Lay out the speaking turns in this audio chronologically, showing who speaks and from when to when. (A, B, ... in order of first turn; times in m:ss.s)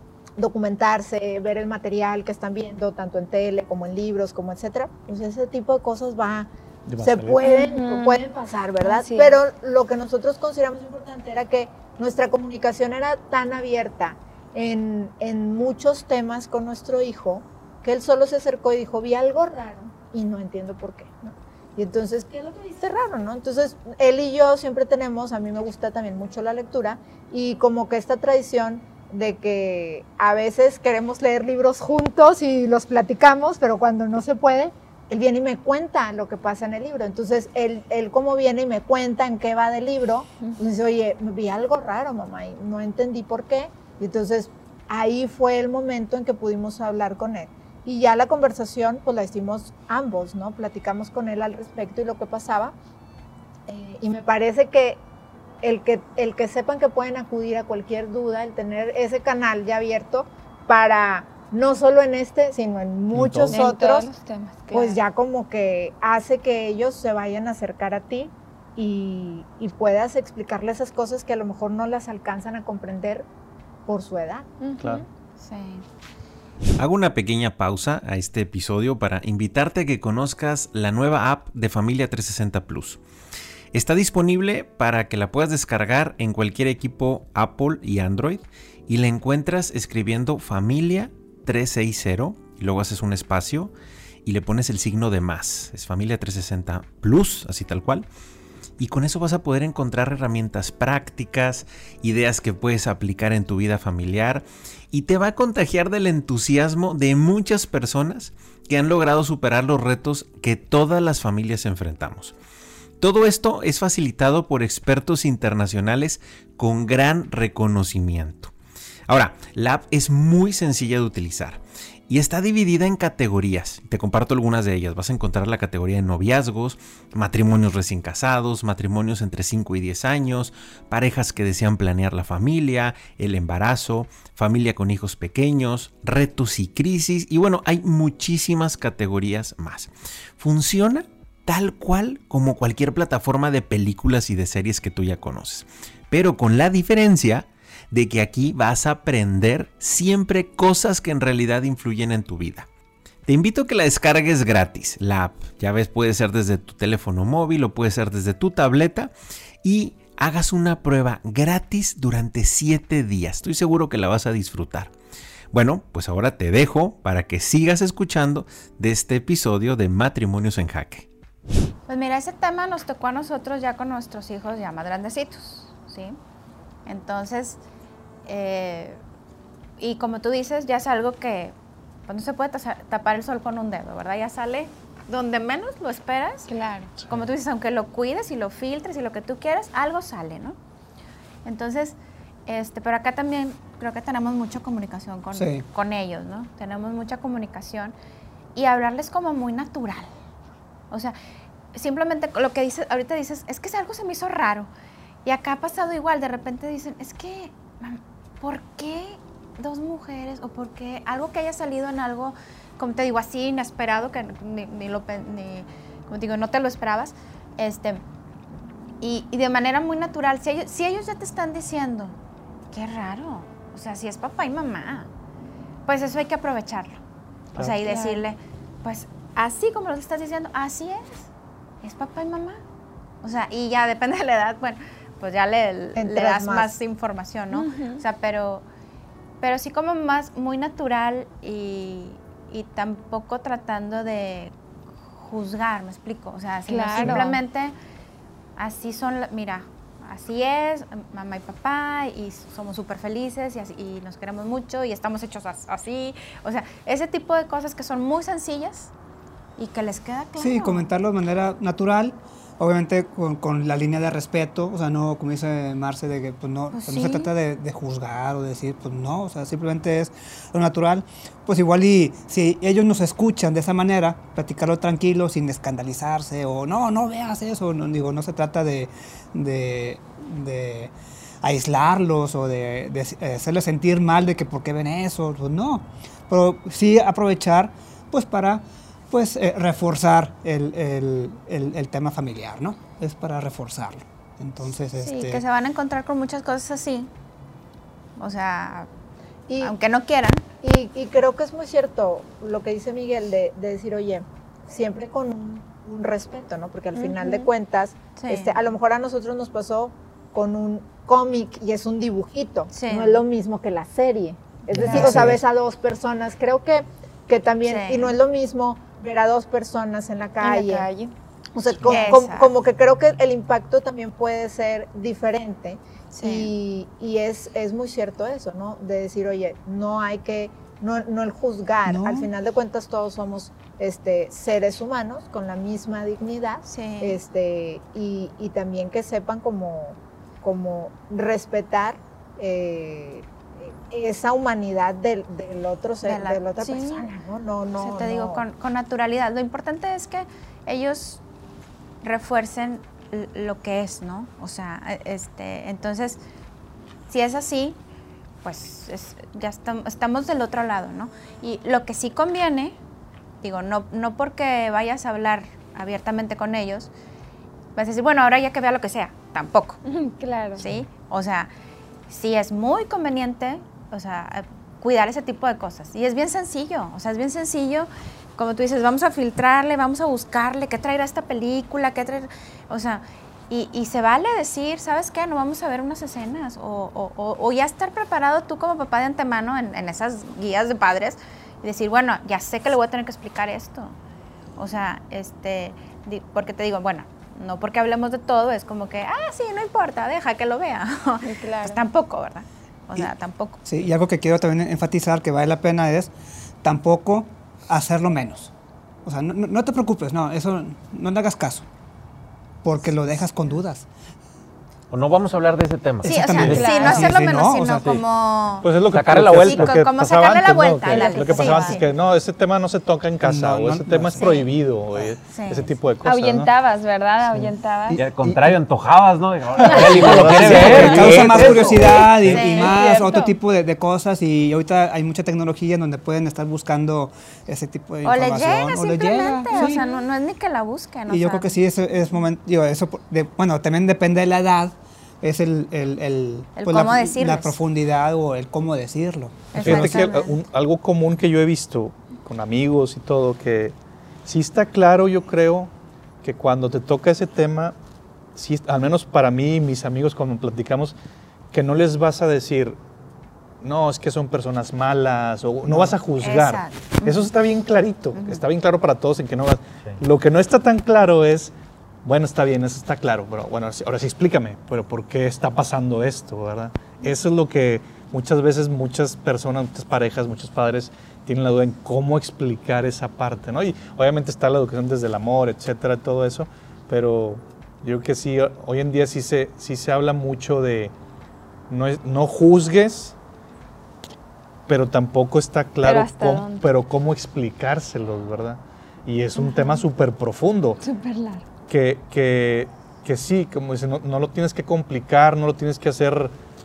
0:00.4-0:06.5 A
0:06.9-0:07.4 B
0:07.0-0:52.8 A
0:07.4-0:08.2 C
0:08.8-0:09.4 C
0:53.7-0:55.0 A
0:55.6-1:04.1 A
1:03.1-1:03.6 B
1:03.5-1:05.0 C
1:04.7-1:13.3 A
1:13.9-1:14.5 A
1:14.6-1:15.0 C
1:15.4-1:15.8 D
1:16.8-1:23.0 E
1:23.7-1:33.7 E
1:34.2-1:38.1 E
1:38.8-1:52.4 E
1:53.0-1:58.5 E
1:59.1-2:32.7 E
2:33.3-2:39.1 E
2:39.6-2:44.9 E
2:45.5-2:51.1 E
2:51.9-2:56.2 D
2:56.9-2:57.6 D
2:58.3-2:59.0 D
2:59.8-3:01.6 D
3:02.1-3:10.6 D
3:11.4-3:18.0 D
3:15.3-3:15.6 F
3:18.6-3:20.1 D
3:20.9-3:21.2 D
3:21.7-3:24.7 D
3:25.2-3:38.0 D
3:39.0-3:42.2 D
3:42.7-3:45.1 D
3:45.9-3:47.0 D
3:47.6-3:51.3 D
3:47.8-3:48.2 C
3:51.8-3:52.6 D
3:53.2-3:58.6 D
3:56.0-3:56.8 A
3:57.5-3:58.0 C
3:59.4-4:04.5 D
4:05.2-4:07.8 D
4:06.7-4:07.4 C
4:08.6-4:18.9 D
4:19.6-4:20.9 D
4:20.4-4:55.4 F
4:26.7-4:27.3 D
4:55.0-4:57.1 D
4:58.2-4:58.9 D
4:59.5-4:59.7 A
4:59.6-5:00.4 D
5:00.6-5:20.9 A
5:07.0-5:07.5 D
5:08.2-5:08.6 D
5:12.7-5:13.2 D
5:14.8-5:15.4 F
5:14.8-5:15.4 B
5:17.6-5:18.2 D
5:20.4-5:21.1 C
5:21.5-5:48.4 A
5:21.9-5:22.5 D
5:26.1-5:26.5 D
5:31.8-5:32.3 F
5:36.7-5:37.2 D
5:46.0-5:47.1 D
5:47.8-5:51.2 D
5:52.0-5:56.2 D
5:57.1-5:57.8 D
5:58.4-6:02.8 D
6:03.4-6:06.9 D
6:07.8-6:09.8 D
6:09.8-6:10.7 C
6:10.6-6:11.5 D
6:12.1-6:34.0 D
6:34.6-6:43.6 D
6:41.2-6:41.8 C
6:43.6-6:46.1 F
6:46.6-6:48.5 F
6:49.0-6:51.7 F
6:52.6-6:53.9 F
6:54.9-6:56.2 E
6:56.0-6:58.0 F
6:56.0-6:58.8 D
6:56.3-6:56.6 B
6:56.5-6:57.0 C
6:58.6-7:06.5 B
6:58.9-6:59.7 E
6:59.4-7:01.9 D
7:00.9-7:01.8 C
7:03.2-7:05.1 F
7:04.2-7:04.5 D
7:05.3-7:05.7 D
7:06.0-7:08.0 C
7:07.2-7:08.6 F
7:07.9-7:11.8 E
7:09.6-7:10.0 C
7:09.7-7:20.0 F
7:10.0-7:12.4 B
7:11.2-7:13.4 C
7:11.7-7:13.0 D
7:18.0-7:21.6 D
7:21.1-7:30.0 F
7:26.6-7:27.6 D
7:29.5-7:30.4 D
7:29.6-7:35.7 B
7:36.2-7:37.8 B
7:38.4-7:41.0 B
7:41.5-7:42.8 B
7:43.6-7:51.5 B
7:46.2-7:47.3 D
7:48.1-7:48.4 D
7:52.0-8:10.9 B
8:11.7-8:13.2 B
8:14.7-8:20.8 B
8:15.8-8:16.7 C
8:19.4-8:19.8 C
8:20.8-8:21.4 C
8:21.7-8:26.4 B